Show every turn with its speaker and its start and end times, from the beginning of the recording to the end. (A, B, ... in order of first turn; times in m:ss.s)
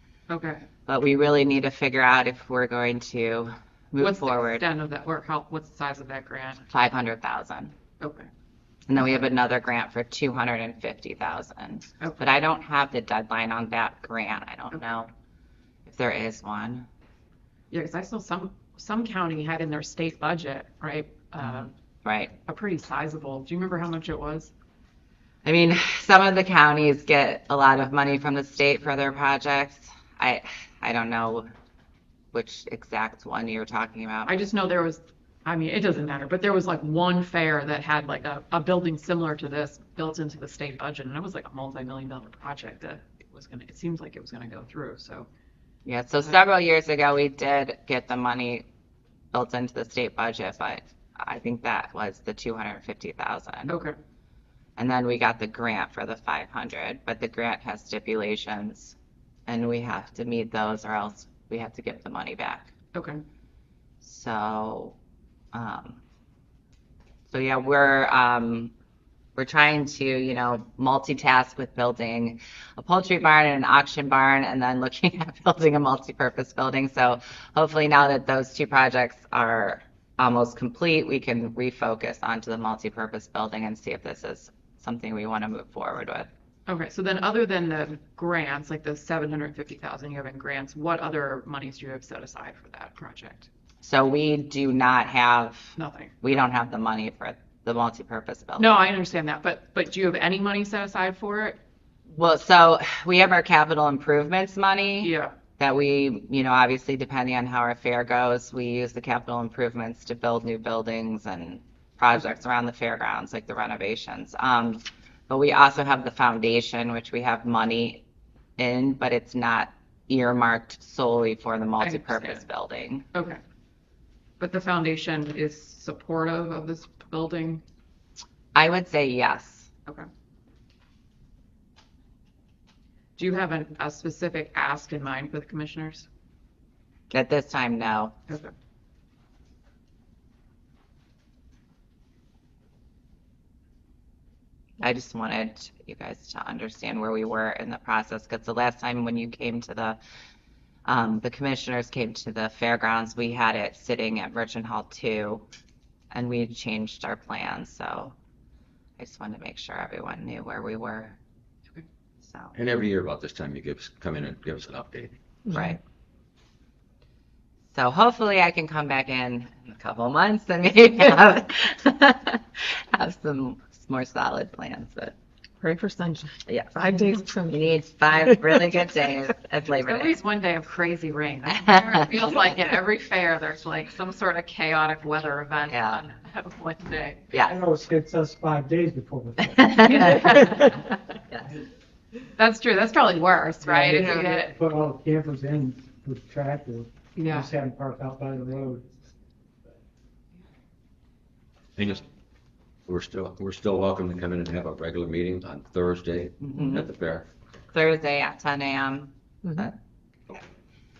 0:00.3-0:00.6 A
0:00.9-0:04.6 B
0:04.0-0:06.6 A
0:06.7-0:07.7 B
0:08.0-0:08.3 A
0:08.9-0:15.1 B
0:09.0-0:09.2 A
0:12.0-0:12.2 A
0:15.8-0:16.9 B
0:17.7-0:21.7 A
0:21.5-0:22.3 B
0:22.4-0:24.5 A
0:25.4-0:31.5 B
0:32.3-0:34.3 B
0:34.3-0:45.3 A
0:45.8-0:48.6 B
0:49.3-0:53.7 B
0:53.7-0:54.0 A
0:54.8-0:59.0 B
0:59.5-1:02.7 B
1:02.9-1:03.2 A
1:04.0-1:05.0 B
1:05.5-1:06.0 B
1:07.3-1:08.7 B
1:09.4-1:26.3 B
1:26.7-1:33.5 A
1:33.8-1:38.7 B
1:35.8-1:36.2 A
1:38.6-1:41.6 A
1:42.1-1:58.0 B
1:45.0-1:45.3 A
1:58.6-2:03.0 B
2:01.8-2:02.4 A
2:03.1-2:03.4 A
2:04.4-2:07.6 A
2:08.5-2:09.7 B
2:13.2-2:16.1 A
2:17.1-2:18.1 B
2:24.8-2:30.0 B
2:30.8-2:35.4 B
2:36.1-2:38.1 B
2:39.0-2:41.2 B
2:42.2-2:42.5 B
2:42.5-2:45.2 C
2:45.5-2:45.7 D
2:45.5-2:45.8 B
2:47.7-2:55.2 B
2:55.6-2:57.6 D
2:56.5-3:00.2 B
2:59.8-3:07.3 A
3:01.5-3:02.0 B
3:05.7-3:06.0 B
3:07.3-3:07.6 B
3:07.4-3:10.6 E
3:09.5-3:11.5 B
3:09.8-3:10.9 A
3:12.3-3:14.5 A
3:13.6-3:18.9 E
3:17.2-3:17.5 A
3:21.8-3:22.0 C
3:22.8-3:27.2 C
3:26.4-3:26.9 B
3:27.7-3:29.7 B